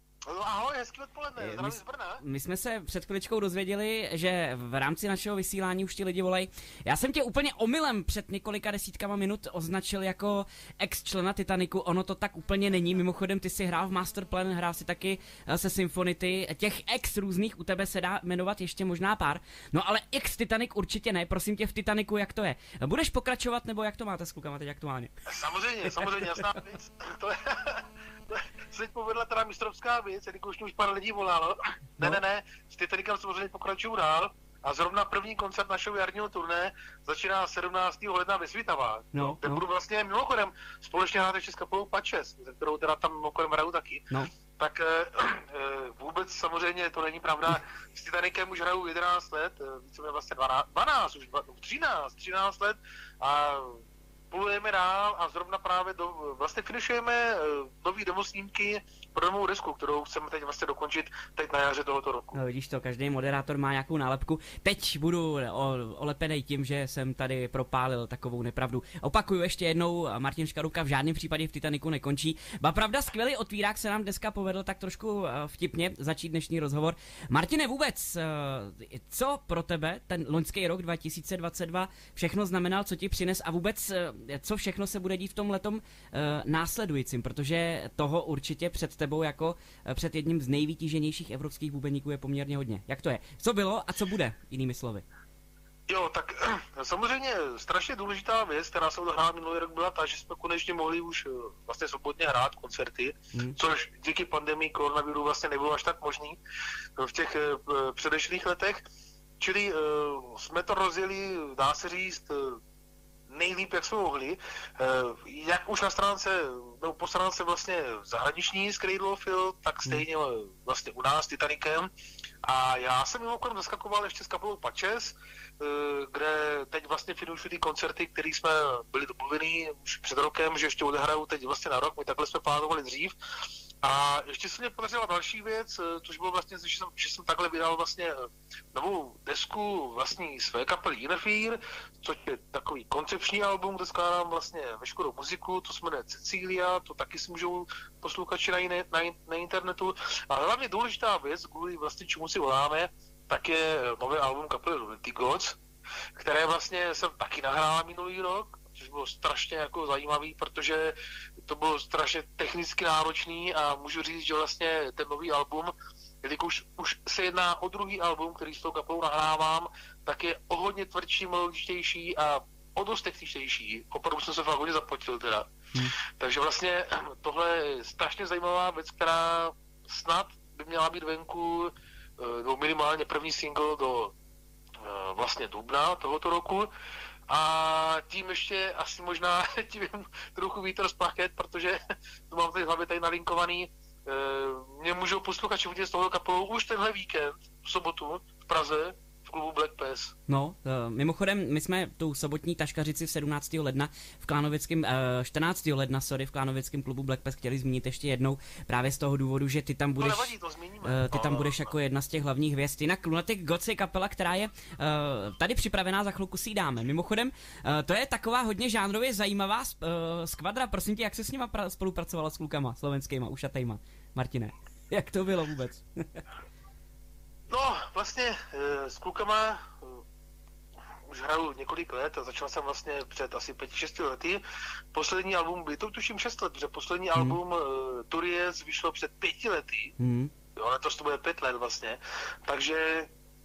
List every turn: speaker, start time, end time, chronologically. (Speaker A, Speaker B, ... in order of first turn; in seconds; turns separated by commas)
Speaker A: 0.3-2.2, Speaker B: 1.4-25.1, Speaker A: 25.2-44.0, Speaker B: 25.9-26.4, Speaker B: 39.1-39.6, Speaker A: 44.6-62.4, Speaker B: 62.3-95.0, Speaker A: 95.9-106.4, Speaker A: 107.0-108.8, Speaker A: 109.4-112.6, Speaker A: 113.3-121.9, Speaker A: 122.4-133.1, Speaker A: 133.8-155.6, Speaker A: 156.2-175.5, Speaker A: 176.0-184.1, Speaker A: 184.8-186.7, Speaker A: 187.3-191.8, Speaker A: 192.3-200.1, Speaker B: 200.3-210.3, Speaker A: 210.0-211.6, Speaker B: 210.8-226.2, Speaker A: 227.5-230.0, Speaker A: 231.1-234.4, Speaker A: 234.9-239.9, Speaker B: 240.0-240.3, Speaker A: 240.6-243.1